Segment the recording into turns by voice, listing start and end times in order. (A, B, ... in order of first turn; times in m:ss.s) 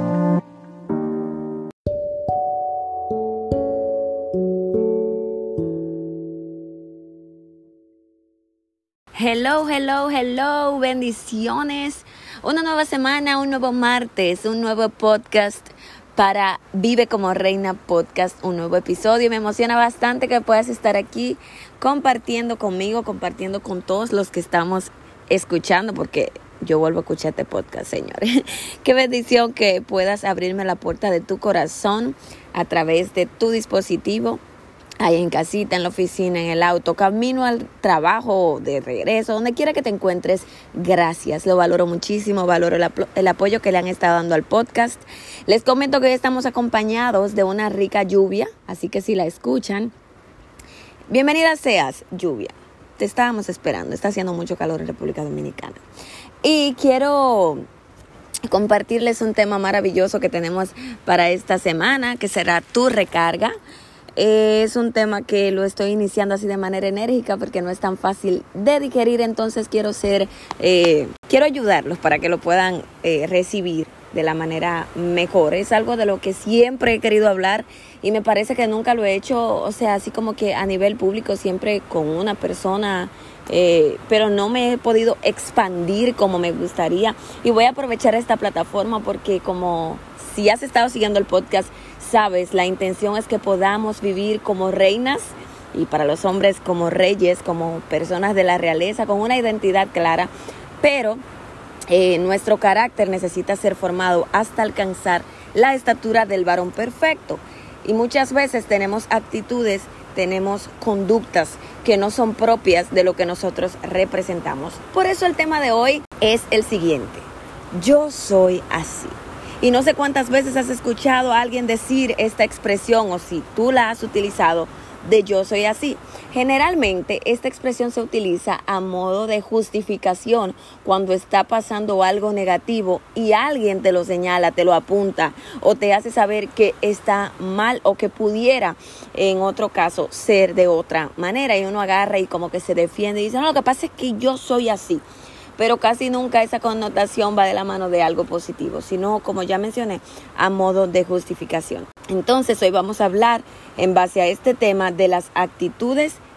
0:09.2-0:34.4 A
0:35.0-0:49.9 A
0:51.1-0:55.8 A
0:56.4-0:57.6 A
0:58.5-1:03.6 A
1:04.2-1:41.2 A
1:41.9-2:25.0 A
2:25.6-2:36.2 A